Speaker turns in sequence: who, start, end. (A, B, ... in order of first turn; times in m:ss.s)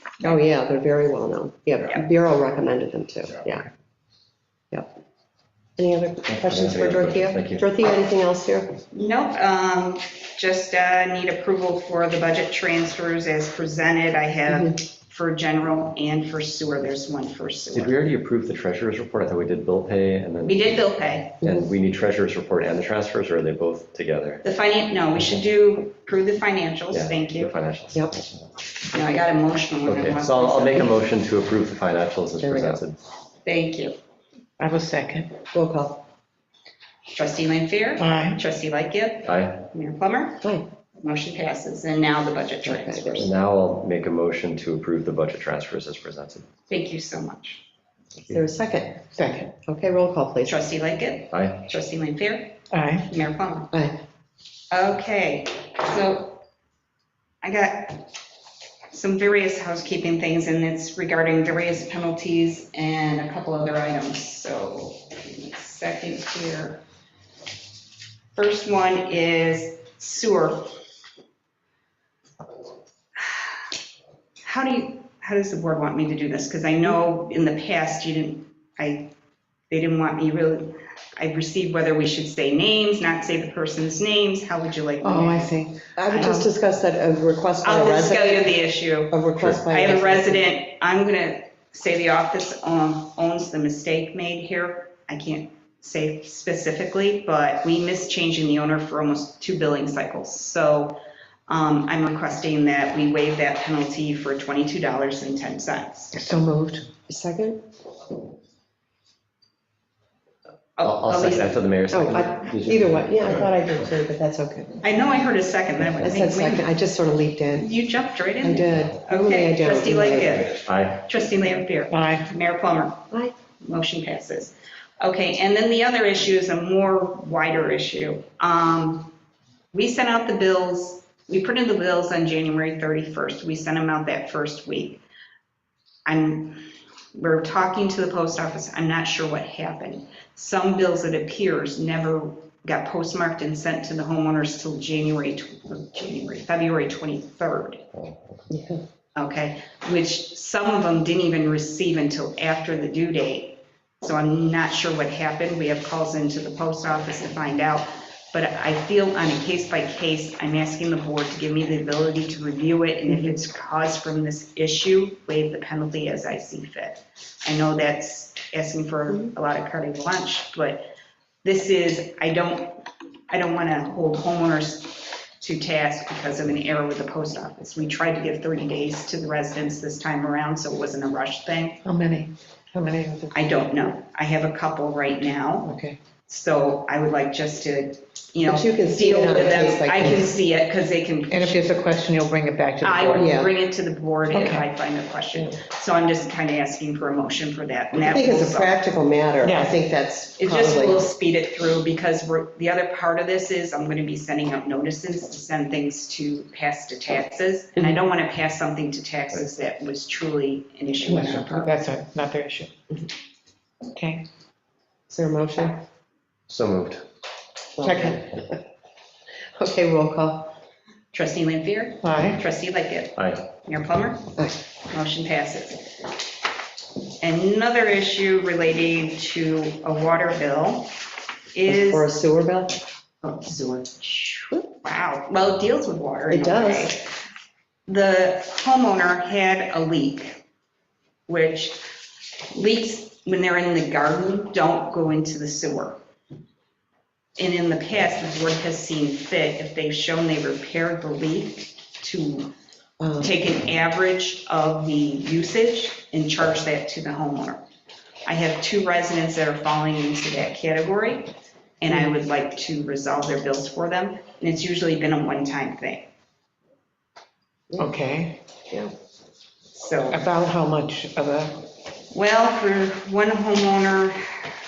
0:00.2-0:03.7 A
0:05.8-0:08.8 A
0:06.3-0:07.6 B
0:08.9-0:18.0 C
0:14.5-0:14.8 A
0:17.7-0:24.4 B
0:20.4-0:21.4 C
0:21.4-0:21.7 A
0:24.4-0:27.5 C
0:26.9-0:28.5 B
0:28.9-0:31.0 C
0:29.8-0:33.0 B
0:32.4-0:32.8 A
0:33.4-0:34.0 C
0:34.6-0:35.3 D
0:35.5-0:36.0 A
0:37.1-0:40.5 C
0:38.0-0:38.4 D
0:39.3-0:39.6 B
0:41.0-0:43.3 C
0:42.6-0:43.3 A
0:43.2-0:46.5 B
0:46.7-0:47.6 C
0:48.3-0:49.1 A
0:49.2-0:49.5 D
0:49.6-0:50.6 A
0:50.4-0:53.7 C
0:51.3-0:51.7 B
0:52.7-0:53.1 D
0:53.7-0:54.0 A
0:54.7-0:56.4 C
0:57.4-0:58.1 C
0:58.9-1:06.8 C
1:08.4-1:10.7 C
1:13.2-1:13.5 C
1:14.4-1:19.1 C
1:19.7-1:26.5 C
1:25.0-1:26.4 D
1:26.0-1:28.5 A
1:27.6-1:46.2 C
1:29.1-1:30.5 A
1:46.1-1:46.9 D
1:47.1-1:47.6 A
1:50.8-1:51.6 C
1:50.8-1:53.3 B
1:51.9-1:54.8 A
1:54.8-1:56.7 C
1:56.0-1:57.7 A
1:57.6-2:03.0 C
1:58.4-2:00.4 A
2:00.5-2:01.1 B
2:01.9-2:02.3 D
2:03.6-2:09.1 C
2:09.7-2:15.0 C
2:16.1-2:27.9 C
2:28.5-2:28.8 A
2:29.2-2:50.9 C
2:51.4-3:01.8 C
3:01.8-3:03.3 D
3:03.3-3:05.7 C
3:05.6-3:06.0 D
3:06.3-3:11.8 C
3:08.4-3:10.3 A
3:11.3-3:13.3 D
3:12.8-3:18.8 C
3:13.2-3:13.5 A
3:14.3-3:14.6 D
3:18.0-3:21.1 A
3:19.4-3:19.8 D
3:20.4-3:31.8 C
3:31.1-3:32.7 D
3:34.0-3:34.2 D
3:35.1-3:35.8 A
3:36.5-3:37.0 B
3:37.8-3:38.6 A
3:37.8-3:38.2 D
3:39.6-3:40.5 A
3:41.1-3:44.3 C
3:42.0-3:42.4 D
3:43.2-3:43.4 B
3:44.9-3:45.8 C
3:47.2-3:50.9 C
3:51.5-3:52.2 C
3:51.7-3:52.8 A
3:53.2-3:57.1 C
3:56.3-3:57.0 A
3:57.9-4:00.4 C
4:01.3-4:01.8 C
4:02.5-4:06.0 C
4:07.4-4:12.5 C
4:13.0-4:13.3 A
4:13.2-4:17.6 C
4:18.3-4:26.1 C
4:27.7-4:28.0 A
4:27.8-4:28.4 D
4:29.7-4:30.2 C
4:30.1-4:31.6 D
4:32.1-4:34.4 C